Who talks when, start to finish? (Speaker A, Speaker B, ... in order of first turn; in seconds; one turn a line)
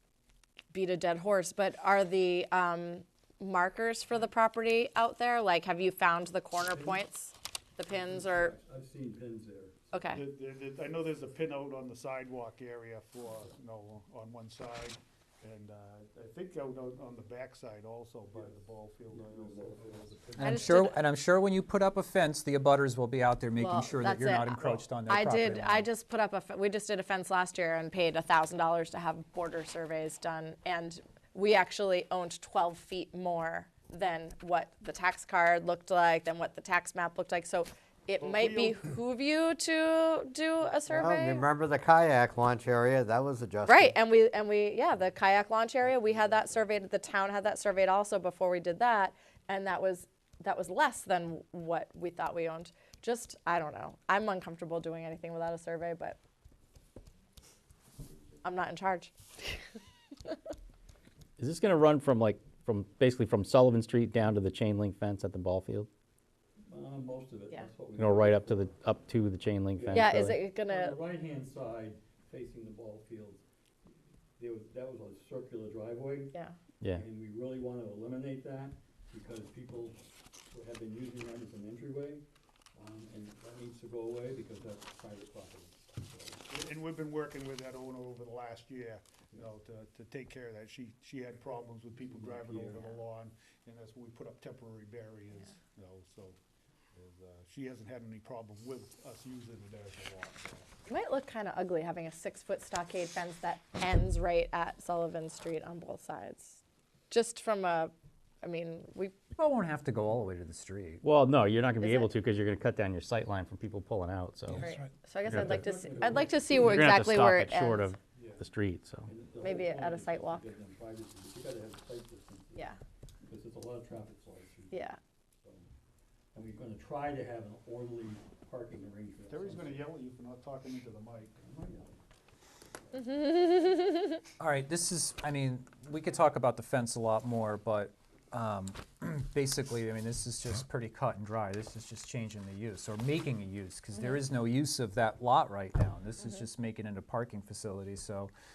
Speaker A: 0.7-8.5
Speaker B: 6.6-7.0
Speaker B: 7.8-9.9
Speaker A: 9.9-10.3
Speaker C: 10.1-20.7
Speaker B: 18.3-20.7
Speaker D: 20.4-25.9
Speaker A: 20.4-21.0
Speaker A: 23.6-41.5
Speaker C: 38.2-38.9
Speaker E: 40.9-44.0
Speaker A: 43.6-56.2
Speaker B: 45.8-46.8
Speaker A: 58.4-60.4
Speaker F: 61.4-65.9
Speaker B: 66.7-68.7
Speaker F: 68.0-70.4
Speaker B: 69.7-73.4
Speaker A: 69.9-71.0
Speaker B: 74.4-76.3
Speaker B: 76.9-80.0
Speaker B: 80.5-82.2
Speaker B: 82.7-86.5
Speaker C: 86.5-96.4
Speaker B: 91.8-92.8
Speaker C: 96.9-100.7
Speaker A: 100.9-109.3
Speaker D: 109.3-111.0
Speaker F: 111.0-114.7
Speaker A: 111.8-112.1
Speaker A: 114.5-117.9
Speaker B: 115.2-116.9
Speaker F: 115.3-115.6
Speaker F: 116.6-119.1
Speaker B: 118.2-118.4
Speaker B: 119.0-122.7
Speaker A: 119.4-120.5
Speaker B: 123.2-124.8
Speaker A: 124.7-125.0
Speaker B: 125.4-125.7
Speaker B: 126.3-129.9
Speaker C: 129.3-131.3
Speaker B: 131.4-132.0
Speaker A: 132.9-134.2
Speaker D: 134.4-148.3
Speaker A: 143.9-144.2
Speaker A: 146.2-146.4